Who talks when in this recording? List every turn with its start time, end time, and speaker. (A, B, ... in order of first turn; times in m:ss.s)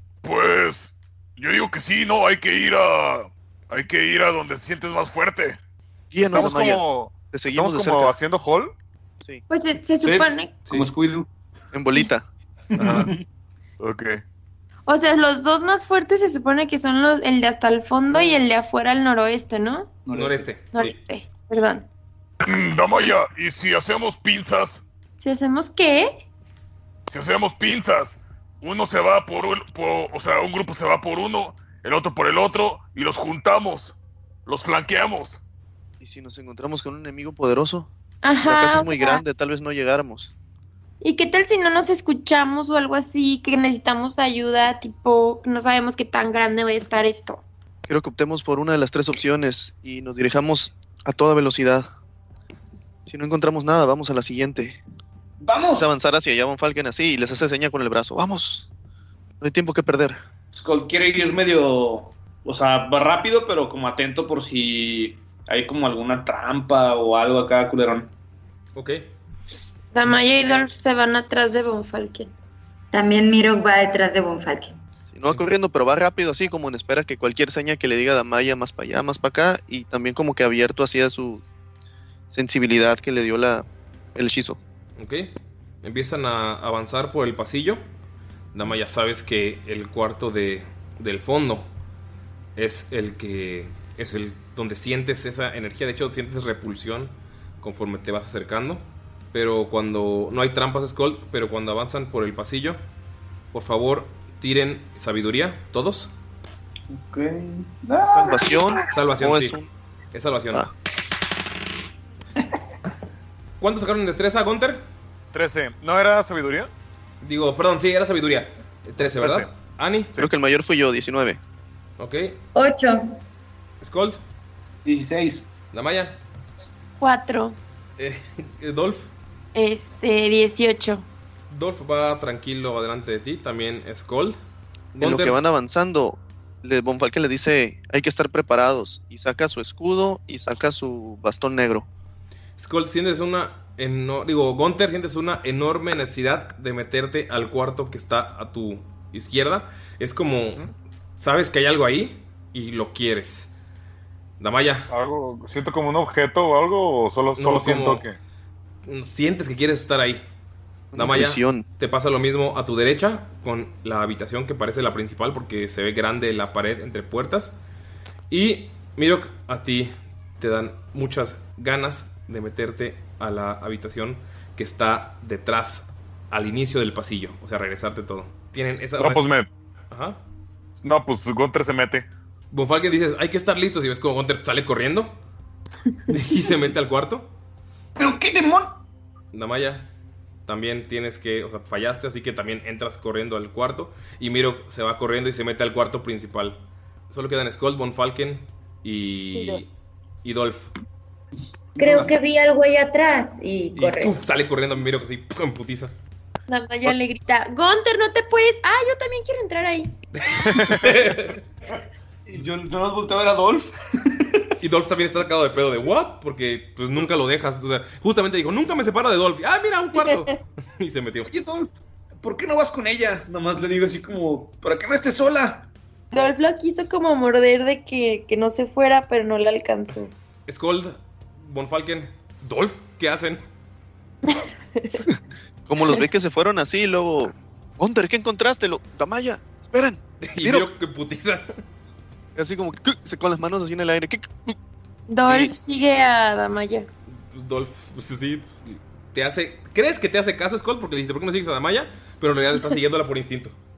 0:00.2-0:05.6 A
0:06.1-0:08.2 B
0:06.2-0:08.7 A
0:09.5-0:10.6 C
0:10.0-0:11.3 D
0:11.7-0:12.2 B
0:12.8-0:13.2 D
0:12.8-0:13.1 A
0:13.8-0:14.2 A
0:14.9-0:19.9 C
0:20.0-0:20.6 D
0:20.1-0:21.0 E
0:20.7-0:21.9 C
0:22.4-0:24.8 A
0:25.2-0:26.2 C
0:27.1-0:35.4 A
0:36.0-0:37.9 B
0:38.2-0:39.2 C
0:38.4-0:40.3 B
0:41.0-0:47.4 C
0:47.9-0:51.9 B
0:53.1-0:54.8 B
0:55.4-0:55.9 D
0:55.8-0:58.7 B
0:59.4-1:00.2 B
1:00.5-1:08.1 D
1:08.8-1:09.1 E
1:09.9-1:12.3 C
1:12.9-1:14.7 F
1:15.1-1:21.5 B
1:22.3-1:24.6 B
1:25.0-1:27.8 E
1:28.5-1:31.7 E
1:32.6-1:42.8 E
1:43.5-1:46.1 E
1:46.9-1:48.9 D
1:48.0-1:49.7 B
1:48.9-1:49.6 E
1:50.1-1:50.7 E
1:53.6-1:54.8 E
1:55.3-1:56.7 A
1:57.2-2:00.1 E
1:59.0-1:59.5 A
2:00.2-2:01.4 B
2:02.0-2:02.4 E
2:02.6-2:03.0 F
2:03.8-2:04.2 E
2:04.8-2:05.5 D
2:05.7-2:06.2 E
2:07.0-2:07.6 C
2:08.0-2:09.1 E
2:09.6-2:11.1 C
2:11.5-2:14.4 E
2:14.9-2:15.4 E
2:15.0-2:21.9 B
2:22.6-2:33.5 E
2:34.4-2:34.9 E
2:34.9-2:38.2 A
2:37.4-2:38.0 E
2:38.9-2:40.2 E
2:40.9-2:41.6 B
2:41.0-2:47.6 E
2:48.3-2:59.3 E
2:59.0-2:59.5 A
2:59.9-3:00.2 E
3:00.8-3:02.1 A
3:02.5-3:05.1 E
3:06.1-3:07.3 E
3:08.0-3:08.8 D
3:09.3-3:09.9 E
3:10.5-3:16.6 E
3:17.1-3:19.7 E
3:19.3-3:19.6 C
3:20.2-3:20.7 E
3:21.8-3:24.1 F
3:23.8-3:25.9 E
3:26.5-3:29.9 C
3:30.2-3:31.4 E
3:30.6-3:30.8 A
3:32.3-3:33.7 D
3:34.6-3:41.3 E
3:40.0-3:40.3 C
3:41.2-3:45.7 D
3:46.1-3:50.1 C
3:50.5-3:53.4 E
3:54.3-3:55.0 C
3:55.7-4:00.7 B
4:00.3-4:01.6 E
4:02.4-4:04.6 B
4:05.1-4:06.9 C
4:05.3-4:05.5 B
4:07.2-4:13.6 E